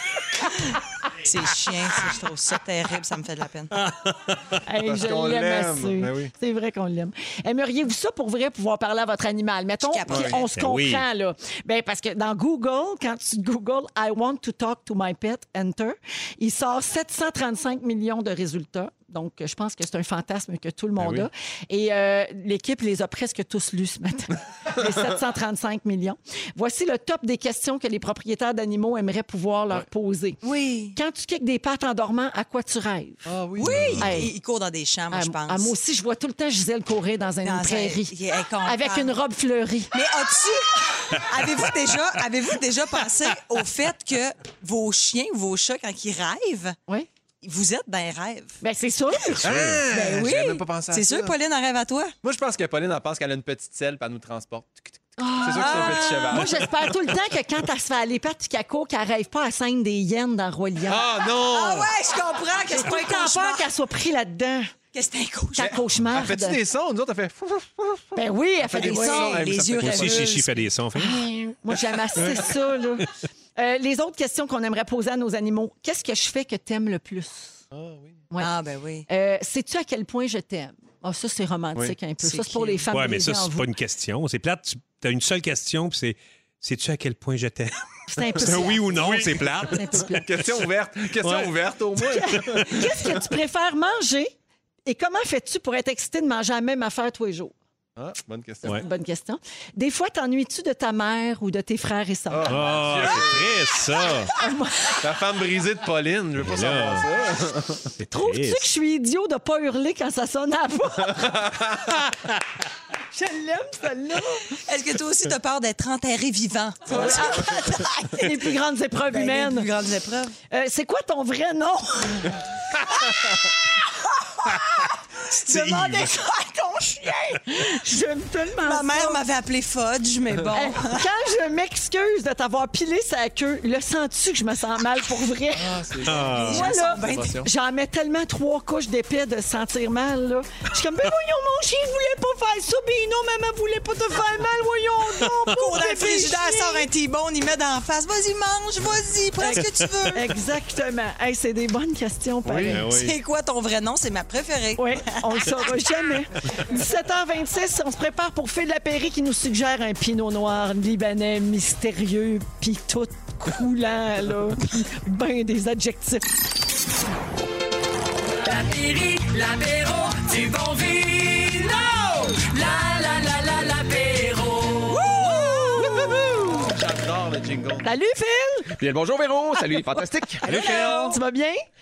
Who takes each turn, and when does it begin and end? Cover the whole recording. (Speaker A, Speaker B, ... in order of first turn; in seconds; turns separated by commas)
Speaker A: 1.2-3.7, Speaker B: 3.7-4.6, Speaker C: 4.7-30.4, Speaker D: 4.9-6.3, Speaker A: 9.8-10.5, Speaker D: 10.1-10.4, Speaker B: 10.6-11.0, Speaker A: 30.4-30.9, Speaker C: 30.9-33.3, Speaker D: 33.2-34.1, Speaker A: 33.6-35.7, Speaker C: 34.0-34.3, Speaker C: 35.1-39.9, Speaker A: 37.4-39.1, Speaker A: 39.9-46.8, Speaker A: 47.4-48.6, Speaker C: 48.6-49.5, Speaker B: 49.4-49.9, Speaker D: 49.4-51.3, Speaker A: 49.9-52.1, Speaker D: 52.2-56.7, Speaker C: 55.2-61.1, Speaker A: 55.5-56.5, Speaker D: 60.9-61.9, Speaker A: 61.3-63.6, Speaker C: 62.7-64.7, Speaker A: 64.9-65.7, Speaker C: 65.6-66.6, Speaker D: 65.6-70.4, Speaker C: 68.2-69.4, Speaker A: 68.7-70.6, Speaker B: 69.8-71.3, Speaker C: 71.0-77.6, Speaker B: 72.2-72.5, Speaker D: 77.7-78.2, Speaker A: 78.4-79.1, Speaker C: 79.1-83.7, Speaker A: 82.2-82.9, Speaker B: 82.9-90.0, Speaker C: 88.1-90.4, Speaker D: 88.9-93.2, Speaker B: 91.2-91.5, Speaker C: 92.0-94.3, Speaker B: 92.3-92.9, Speaker C: 94.9-97.5, Speaker D: 98.0-98.7, Speaker C: 98.6-102.7, Speaker D: 102.3-103.8, Speaker B: 102.5-104.3, Speaker C: 104.4-105.0, Speaker D: 104.9-107.9, Speaker B: 106.4-107.0, Speaker B: 108.0-108.7, Speaker C: 108.1-111.4, Speaker D: 111.2-111.9, Speaker B: 112.0-112.4, Speaker C: 113.1-114.5, Speaker A: 114.7-118.3, Speaker C: 116.9-119.7, Speaker A: 119.1-120.4, Speaker C: 120.5-122.4, Speaker A: 122.9-127.4, Speaker C: 125.5-126.0, Speaker C: 127.4-129.2, Speaker A: 128.6-131.1, Speaker C: 130.5-146.9, Speaker D: 135.6-137.5, Speaker B: 136.1-136.7, Speaker A: 136.4-137.4, Speaker A: 145.5-150.3, Speaker C: 149.4-152.8, Speaker B: 149.5-149.9, Speaker D: 152.4-152.8, Speaker B: 152.7-153.2, Speaker A: 152.8-156.1, Speaker C: 154.8-166.2, Speaker E: 168.4-175.1, Speaker C: 175.0-176.7, Speaker A: 175.1-175.9, Speaker D: 175.8-177.9, Speaker C: 177.8-178.7, Speaker F: 178.7-180.6, Speaker C: 179.9-181.6, Speaker D: 180.4-181.2